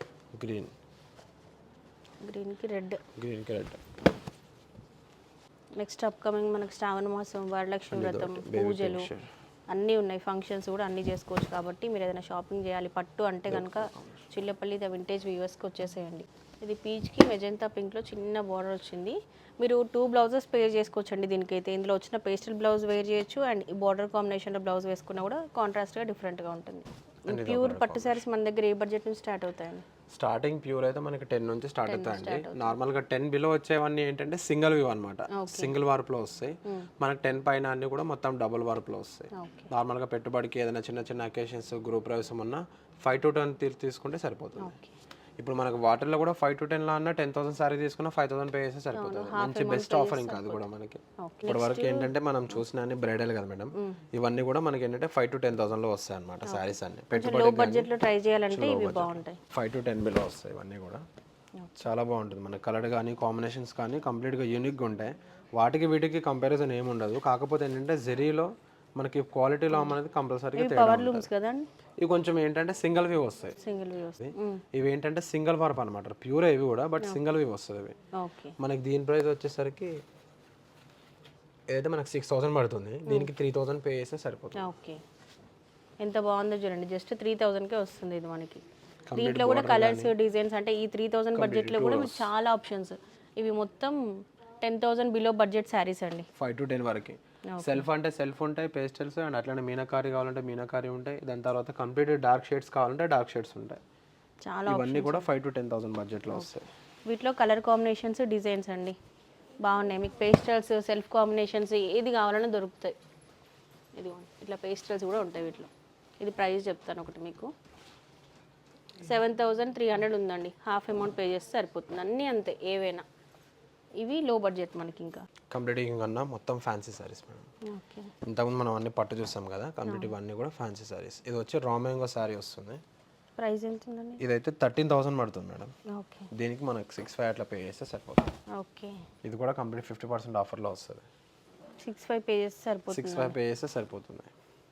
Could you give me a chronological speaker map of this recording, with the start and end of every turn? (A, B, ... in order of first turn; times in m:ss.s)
0:00.4-0:00.7 A
0:02.2-0:03.0 B
0:03.1-0:03.8 A
0:05.8-0:09.1 B
0:07.9-0:09.3 A
0:09.7-0:29.9 B
0:13.5-0:14.3 A
0:27.3-0:28.2 A
0:30.1-0:44.8 A
0:31.8-0:32.8 B
0:35.3-0:35.7 B
0:39.3-0:39.7 B
0:44.6-0:45.0 B
0:45.4-0:57.9 A
0:48.9-0:50.6 B
0:51.2-0:52.1 B
0:56.5-0:59.4 B
0:58.5-1:01.0 A
1:01.8-1:11.3 A
1:10.6-1:11.7 B
1:12.0-1:13.6 A
1:13.6-1:14.6 B
1:14.2-1:18.0 A
1:18.2-1:18.6 B
1:18.6-1:20.0 A
1:21.7-1:24.7 A
1:24.6-1:25.0 B
1:26.0-1:28.6 B
1:29.1-1:30.1 A
1:29.2-1:34.0 B
1:31.4-1:32.3 A
1:34.6-1:36.3 B
1:36.4-1:43.8 A
1:37.5-1:37.9 B
1:44.4-1:45.3 B
1:44.7-1:46.7 A
1:47.1-1:49.0 B
1:49.6-1:53.0 B
1:54.0-1:55.7 B
1:56.2-1:57.5 B
1:59.0-2:03.0 B
2:04.0-2:05.2 B
2:05.5-2:07.5 A
2:07.7-2:08.1 B
2:08.2-2:12.8 A
2:09.9-2:10.1 B
2:13.4-2:14.2 B
2:14.2-2:15.7 A
2:15.9-2:16.3 B
2:16.3-2:18.3 A
2:18.6-2:19.0 B
2:19.2-2:21.0 A
2:21.8-2:23.4 B
2:22.9-2:24.3 A